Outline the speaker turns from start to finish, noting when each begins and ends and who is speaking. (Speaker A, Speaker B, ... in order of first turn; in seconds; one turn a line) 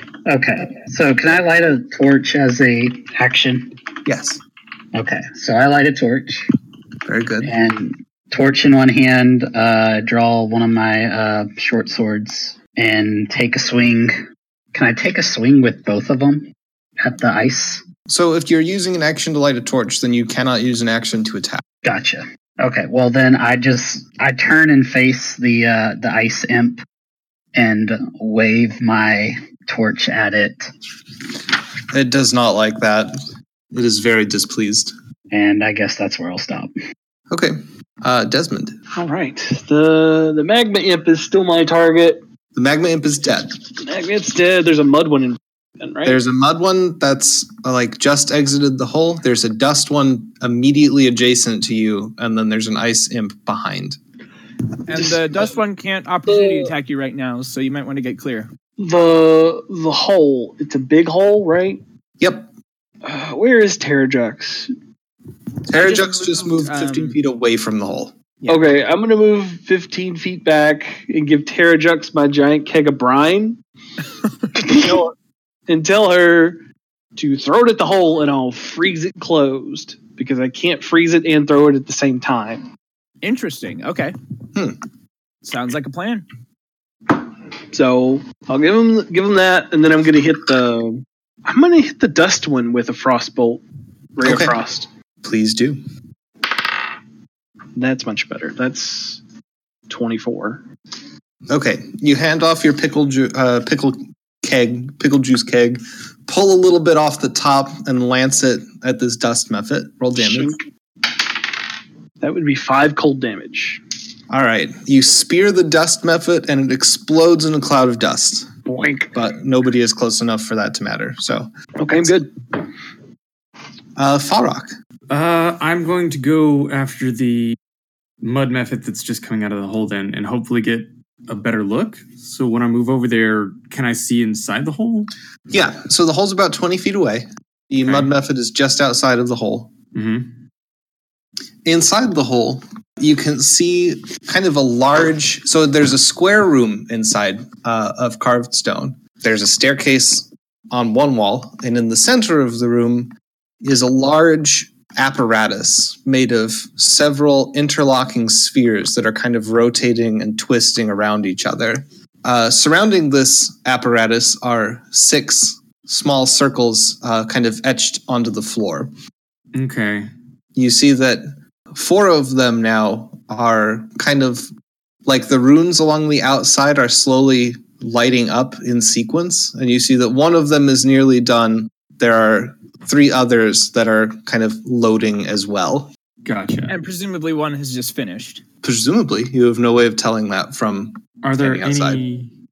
Speaker A: 0.2-3.7
Speaker B: 4.0-4.4
Speaker A: 4.9-6.5
Speaker B: 7.0-7.6
Speaker A: 7.4-14.2
Speaker A: 14.7-16.5
Speaker A: 17.0-17.8
Speaker B: 18.1-21.6
Speaker A: 21.8-26.8
Speaker A: 27.5-30.7
Speaker B: 31.9-33.1
Speaker B: 33.7-34.9
Speaker A: 35.3-36.7
Speaker B: 37.3-38.8
Speaker C: 38.9-42.2
Speaker B: 42.5-43.5
Speaker C: 43.8-46.2
Speaker B: 46.0-54.0
Speaker D: 54.9-58.5
Speaker C: 54.9-55.4
Speaker C: 56.3-56.7
Speaker C: 58.8-61.8
Speaker B: 62.2-62.5
Speaker C: 63.0-64.7
Speaker B: 65.7-68.2
Speaker D: 65.8-67.2
Speaker C: 68.5-73.6
Speaker C: 74.5-75.1
Speaker C: 75.7-76.6
Speaker C: 77.2-82.7
Speaker D: 83.2-84.1
Speaker D: 85.4-86.2
Speaker C: 87.2-93.6
Speaker C: 94.2-94.9
Speaker B: 94.2-94.5
Speaker B: 95.2-95.8
Speaker C: 97.8-99.2
Speaker C: 99.9-100.6
Speaker B: 101.5-110.5
Speaker C: 110.2-110.5
Speaker C: 112.2-113.8
Speaker B: 114.3-118.5
Speaker C: 118.7-119.1
Speaker B: 119.1-122.1
Speaker C: 121.8-122.3
Speaker B: 124.0-124.7
Speaker E: 125.1-127.6
Speaker E: 128.2-135.1
Speaker B: 135.5-139.7
Speaker E: 137.8-138.1
Speaker E: 139.9-140.3
Speaker B: 141.6-153.1
Speaker B: 153.6-168.9
Speaker E: 169.5-170.1
Speaker B: 170.5-174.5
Speaker B: 175.0-185.9
Speaker E: 186.2-186.8
Speaker D: 186.7-188.4
Speaker B: 188.6-192.0
Speaker E: 191.2-192.3